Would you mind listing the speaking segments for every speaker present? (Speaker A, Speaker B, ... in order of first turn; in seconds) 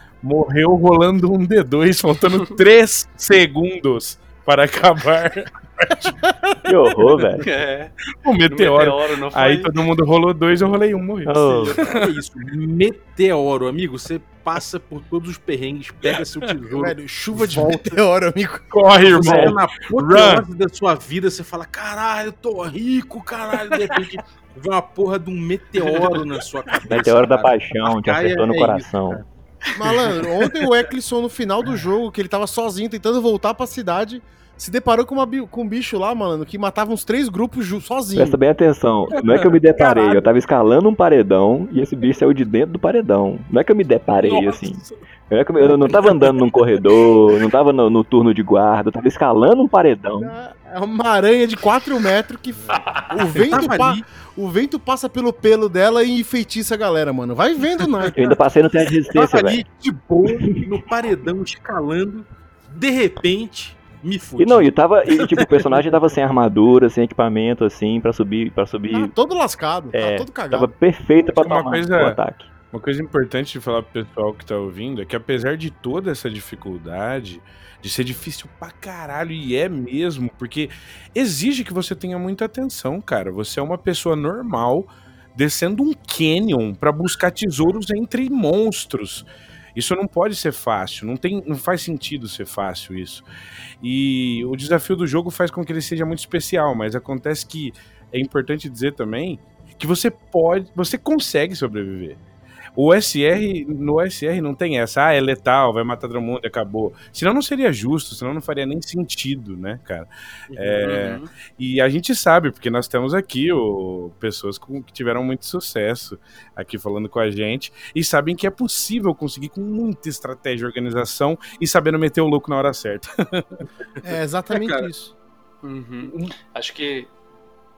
Speaker A: 0.2-6.2, 8.2-12.1, 18.7-20.4, 25.9-26.2, 71.3-72.2, 72.7-93.2, 93.8-102.2, 102.8-123.7
Speaker B: 6.7-7.5, 11.3-11.8, 19.2-19.6, 26.9-29.2, 38.2-50.3, 58.1-59.6, 64.4-69.1, 69.9-72.5
Speaker C: 7.4-7.9, 8.5-9.7, 110.8-111.3, 125.6-127.1
Speaker D: 11.4-18.0, 19.0-29.2, 39.1-40.2, 44.2-45.0, 45.9-46.5, 53.3-54.0, 59.1-65.9, 110.5-111.0, 124.5-124.9
Speaker E: 16.7-18.7, 29.7-38.4, 50.2-58.3, 68.9-70.7, 124.0-125.1